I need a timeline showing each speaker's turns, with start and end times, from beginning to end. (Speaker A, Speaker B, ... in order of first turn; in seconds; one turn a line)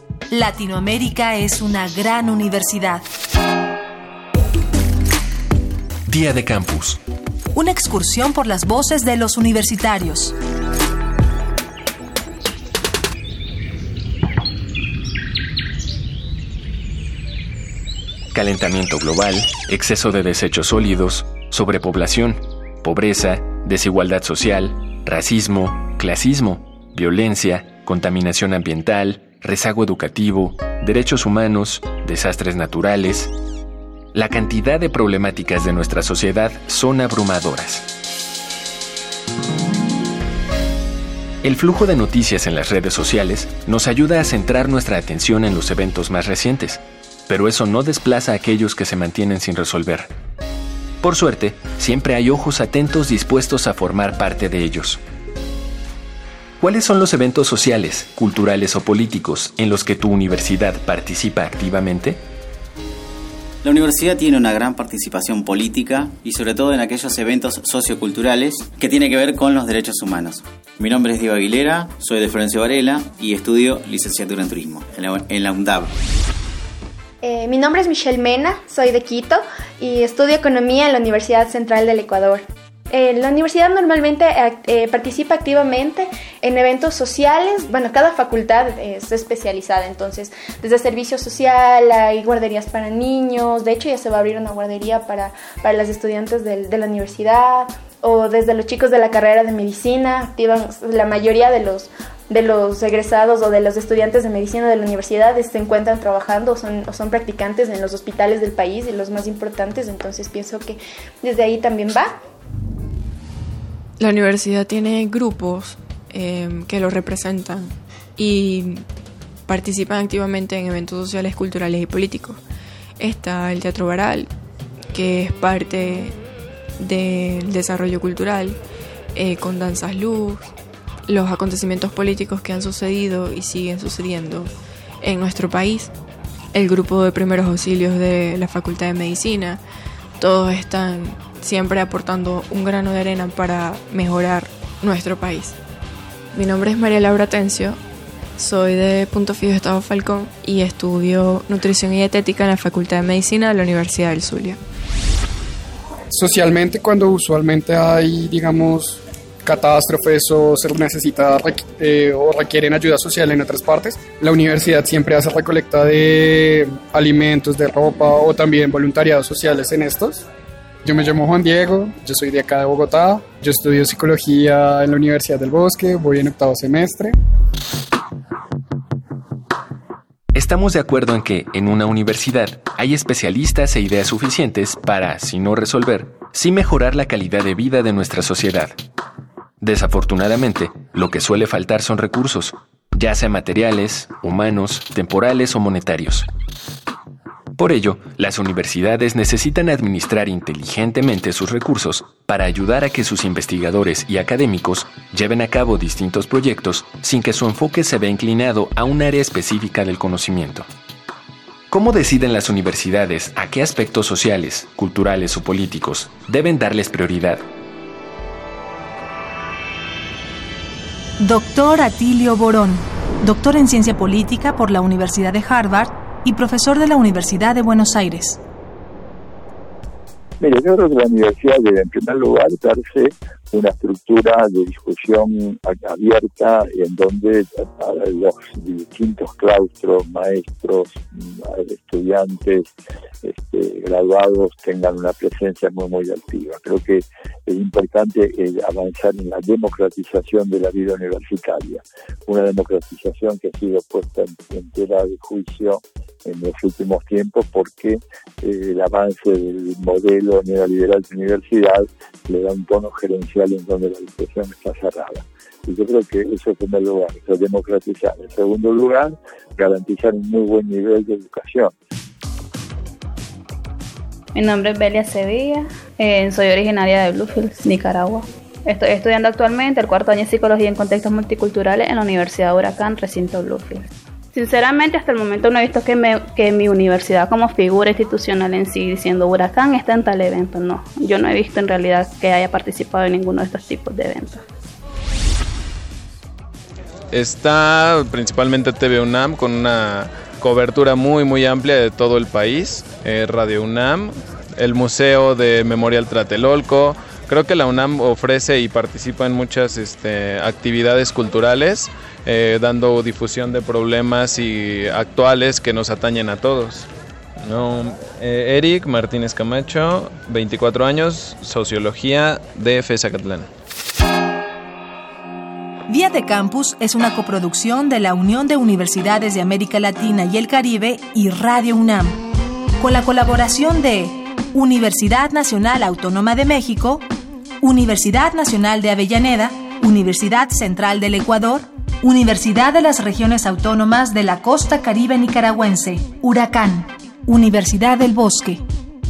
Speaker A: 0.3-3.0
Speaker B: 6.1-7.0
Speaker A: 7.5-10.3
Speaker B: 18.3-33.3
Speaker B: 34.1-37.8
Speaker B: 41.4-50.1
Speaker B: 51.0-55.0
Speaker B: 56.6-62.2
Speaker C: 63.6-75.9
Speaker D: 77.2-112.1
Speaker E: 114.0-118.8
Speaker E: 119.5-122.4
Speaker E: 123.0-124.3
Speaker E: 124.9-126.2
Speaker E: 126.8-128.6
Speaker E: 129.1-130.4
Speaker E: 131.1-135.9
Speaker E: 136.5-139.6
Speaker E: 140.2-145.6
Speaker E: 146.3-147.8
Speaker E: 148.4-154.6
Speaker F: 156.1-170.2
Speaker F: 170.8-177.2
Speaker B: 180.3-188.8
Speaker B: 189.6-196.3
Speaker B: 197.6-210.6
Speaker B: 211.7-217.4
Speaker A: 221.2-228.4
Speaker G: 230.4-242.7
Speaker G: 243.2-271.7
Speaker H: 274.3-294.4
Speaker I: 297.1-316.9
Speaker I: 317.4-323.5
Speaker A: 325.9-332.2
Speaker A: 332.8-337.1
Speaker A: 337.6-348.6